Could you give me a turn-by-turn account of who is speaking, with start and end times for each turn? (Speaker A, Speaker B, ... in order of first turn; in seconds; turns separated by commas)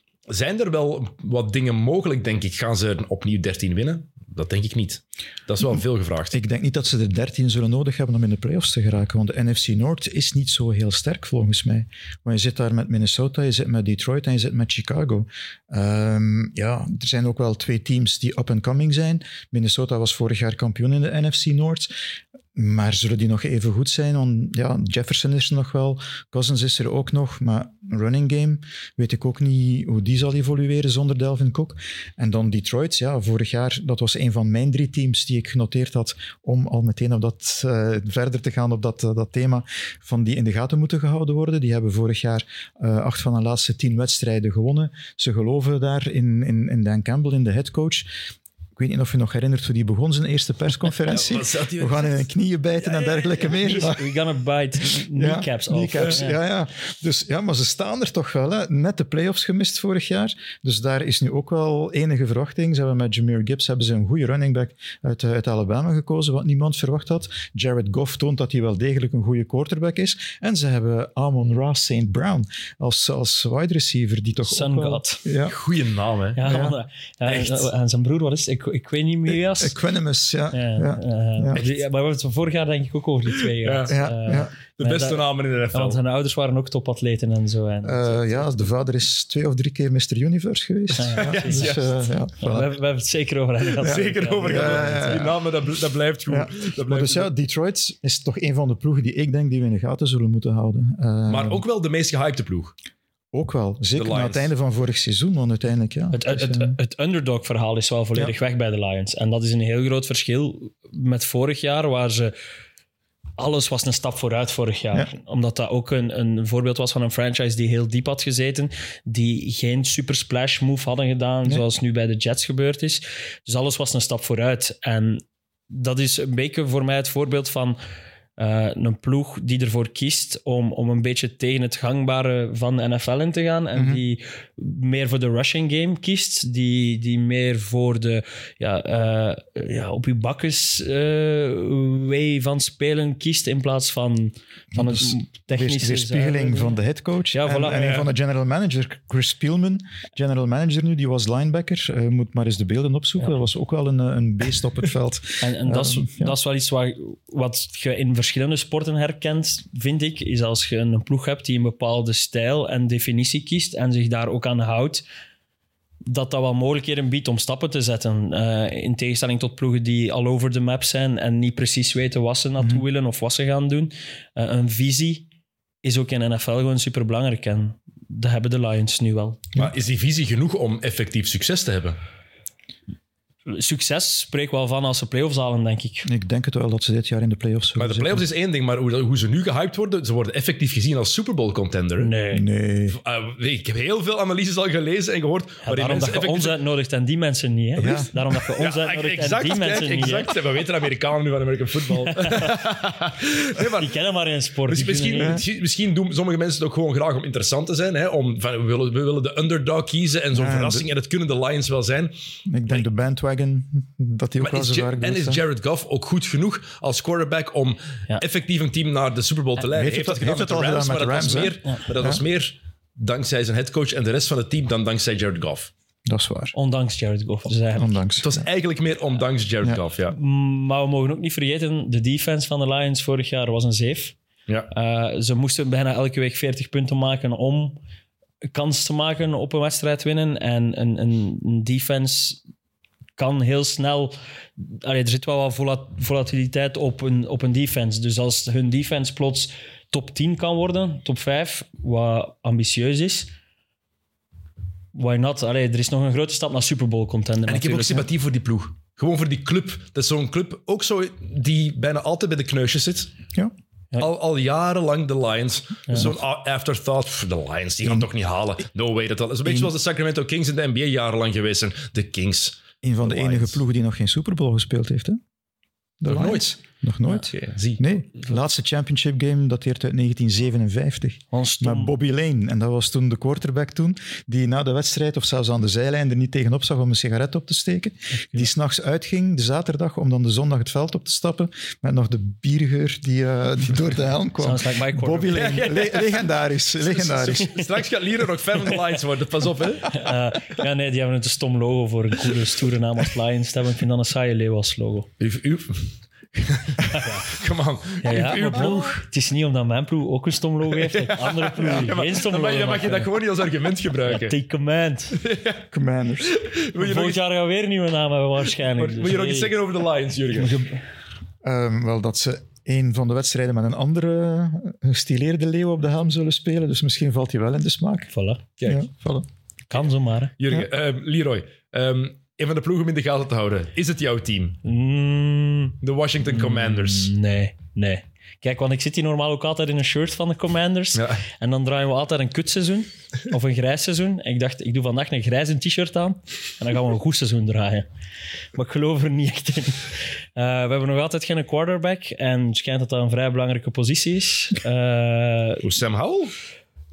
Speaker A: 0.3-6.3, Speaker B: 6.3-21.9, Speaker B: 22.5-48.1, Speaker B: 48.8-54.0, Speaker A: 51.1-53.5, Speaker C: 53.3-56.4, Speaker B: 55.1-75.5, Speaker A: 56.0-56.2, Speaker C: 74.4-75.2, Speaker A: 75.5-76.6, Speaker C: 76.3-79.8, Speaker B: 76.4-76.8, Speaker A: 77.2-77.7, Speaker B: 79.6-81.6, Speaker C: 80.5-85.2, Speaker A: 83.6-86.0, Speaker B: 83.9-84.5, Speaker C: 85.7-88.5, Speaker B: 87.8-92.7, Speaker C: 91.0-91.8, Speaker A: 91.2-91.9, Speaker C: 92.4-95.3, Speaker A: 93.7-97.3, Speaker B: 93.8-95.4, Speaker B: 96.3-101.6, Speaker A: 101.3-102.7, Speaker B: 103.3-106.8, Speaker A: 103.9-104.5, Speaker C: 106.1-112.3, Speaker C: 113.4-127.8, Speaker C: 128.4-146.8, Speaker B: 133.7-134.0, Speaker B: 144.7-156.3, Speaker C: 147.3-148.0, Speaker A: 147.8-148.1, Speaker C: 155.4-165.0, Speaker C: 166.1-175.2, Speaker C: 175.8-179.4, Speaker A: 179.6-182.0, Speaker C: 183.5-186.1, Speaker B: 186.0-188.2, Speaker A: 187.8-192.1, Speaker C: 192.0-192.4, Speaker B: 192.3-193.0, Speaker A: 192.9-196.5, Speaker C: 195.6-200.3, Speaker B: 197.8-198.1, Speaker A: 198.6-203.9, Speaker C: 202.1-202.5, Speaker C: 203.6-205.4, Speaker A: 204.7-212.1, Speaker B: 205.2-205.4, Speaker B: 210.3-210.8, Speaker B: 212.5-215.4, Speaker A: 214.4-225.7, Speaker B: 219.6-222.2, Speaker B: 226.1-226.5, Speaker C: 226.5-228.0, Speaker B: 227.7-228.4, Speaker A: 228.2-230.2, Speaker C: 230.1-234.2, Speaker C: 234.7-237.8, Speaker C: 238.5-242.4, Speaker C: 243.2-253.3, Speaker C: 254.9-258.1, Speaker A: 257.4-263.1, Speaker A: 264.0-273.6, Speaker B: 269.4-269.7, Speaker B: 272.8-275.2, Speaker B: 276.0-297.5, Speaker A: 276.1-276.6, Speaker A: 277.3-277.8, Speaker C: 281.3-281.9, Speaker C: 294.4-295.7, Speaker A: 295.3-300.0, Speaker C: 298.6-299.0, Speaker C: 299.8-305.1, Speaker A: 305.2-309.0, Speaker C: 306.9-307.3, Speaker C: 308.0-313.1, Speaker A: 310.7-314.3, Speaker C: 314.1-315.2, Speaker A: 315.1-315.7, Speaker B: 315.7-316.3, Speaker A: 316.2-317.2, Speaker C: 316.8-319.5, Speaker A: 318.7-320.6, Speaker C: 320.4-320.8, Speaker B: 321.4-328.1, Speaker C: 328.1-328.4, Speaker A: 328.6-328.8, Speaker B: 328.6-329.3, Speaker C: 329.7-330.3, Speaker A: 330.4-334.6, Speaker C: 334.6-347.9, Speaker A: 335.8-337.1, Speaker A: 340.9-341.2, Speaker C: 348.5-355.7, Speaker A: 355.6-356.3